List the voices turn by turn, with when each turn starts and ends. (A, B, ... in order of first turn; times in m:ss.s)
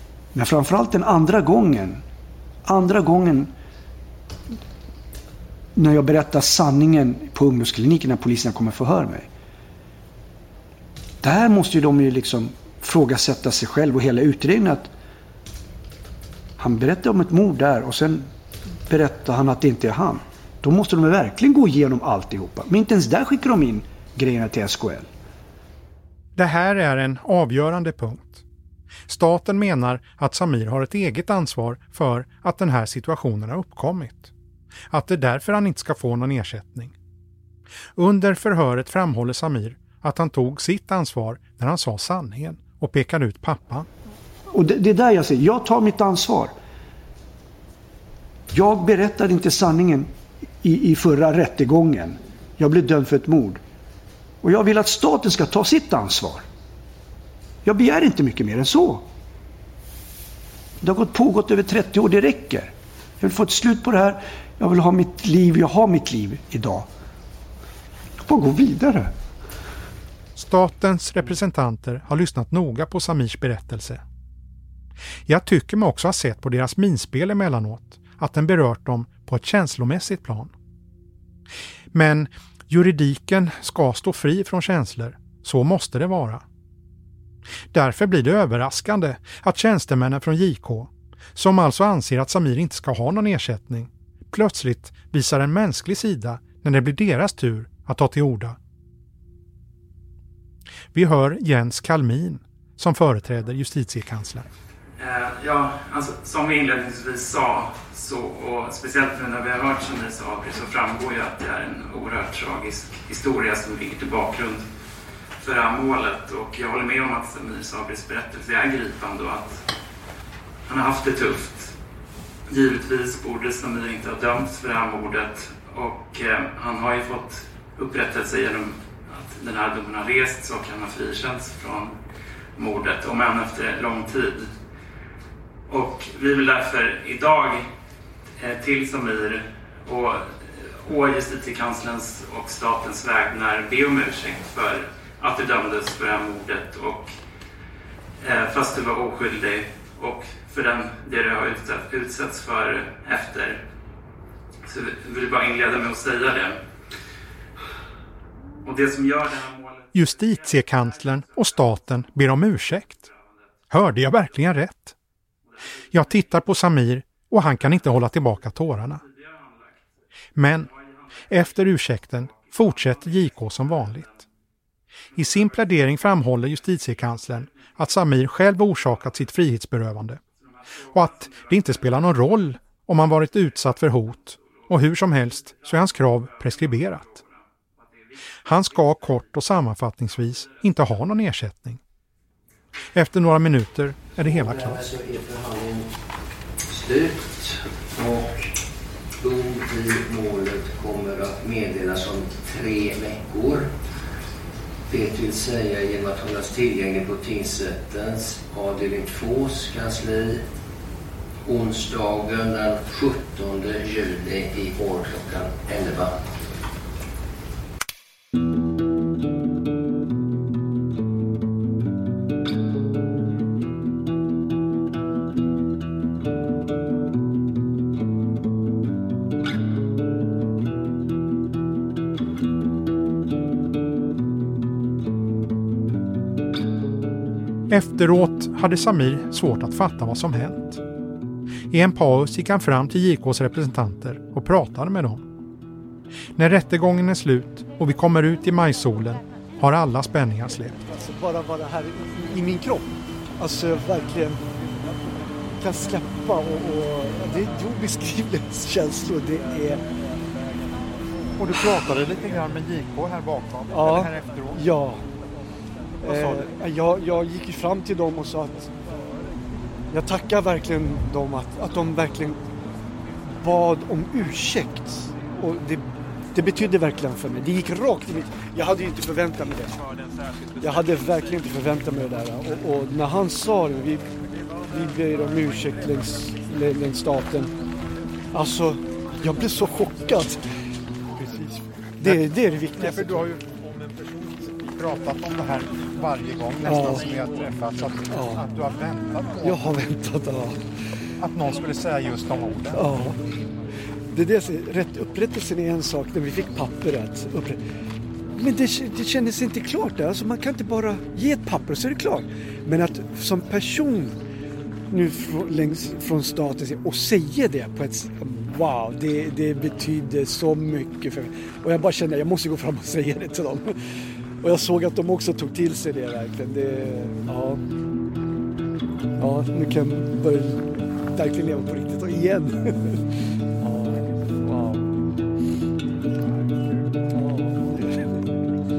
0:00.3-0:02.0 A
0:02.6-0:03.5 A
0:05.7-0:09.3 A
0:11.2-0:14.9 A
0:16.6-0:18.3 A
0:18.9-0:25.1 A
0:26.4-0:28.4 B
0:29.1-0:34.3 B
0:34.9-0:36.9 B
0:38.0-0:43.9 B
0:44.5-0:46.5 A
0:48.5-0:53.6 A
0:54.4-0:56.4 A
0:57.6-0:59.0 A
1:00.8-1:06.9 A
1:08.2-1:09.1 A
1:10.4-1:14.0 B
1:15.3-1:20.5 B
1:21.9-1:26.4 B
1:27.7-1:38.6 B
1:40.9-1:44.5 B
1:45.0-1:54.6 C
1:55.4-1:59.6 C
2:00.6-2:01.7 C
2:02.5-2:11.9 C
2:12.6-2:14.5 C
2:15.7-2:17.6 C
2:18.4-2:27.1 C
2:28.2-2:33.6 C
2:34.6-2:36.5 C
2:38.6-2:42.0 C
2:39.9-2:43.1 B
2:43.7-2:44.9 B
2:45.9-2:49.0 B
2:49.1-2:49.8 C
2:50.4-2:50.7 B
2:51.3-2:54.2 B
2:51.3-2:54.2 C
2:55.2-2:56.5 C
2:55.2-3:00.2 B
3:00.6-3:02.4 C
3:00.9-3:07.2 B
3:04.0-3:07.3 C
3:08.4-3:11.8 B
3:08.6-3:09.2 C
3:10.1-3:10.9 C
3:12.9-3:14.9 B
3:14.2-3:15.9 D
3:16.7-3:18.5 D
3:19.2-3:23.7 D
3:24.9-3:30.4 D
3:31.4-3:36.2 D
3:57.7-4:00.8 B
4:01.7-4:05.2 B
4:06.4-4:10.9 B
4:11.0-4:12.9 E
4:13.4-4:14.4 E
4:13.5-4:14.3 A
4:15.6-4:19.8 E
4:21.4-4:24.7 B
4:23.7-4:24.1 E
4:24.6-4:25.0 E
4:26.0-4:28.7 E
4:26.0-4:26.5 B
4:26.6-4:26.9 A
4:27.6-4:28.5 A
4:29.9-4:32.4 E
4:29.9-4:32.1 A
4:33.4-4:35.8 E
4:36.3-4:39.7 E
4:36.4-4:39.7 A
4:40.6-4:44.0 E
4:40.8-4:43.7 A
4:44.7-4:47.5 E
4:45.6-4:46.0 A
4:46.5-4:47.4 A
4:48.3-4:50.4 E
4:48.4-4:48.7 A
4:49.5-4:50.3 A
4:51.2-4:53.2 E
4:52.0-4:53.4 B
4:52.2-4:52.7 A
4:54.7-4:59.7 B
4:56.6-4:57.0 E
4:58.1-4:58.4 E
4:59.4-5:00.6 E
5:01.2-5:03.0 B
5:02.7-5:03.1 E
5:04.1-5:07.6 E
5:08.4-5:14.1 E
5:10.0-5:10.4 A
5:11.0-5:12.1 A
5:14.9-5:23.6 E
5:16.0-5:16.4 A
5:19.3-5:21.1 A
5:22.4-5:23.5 A
5:24.4-5:27.6 E
5:24.5-5:25.0 A
5:29.2-5:30.4 A
5:29.2-5:30.6 E
5:31.2-5:32.5 E
5:31.9-5:32.6 A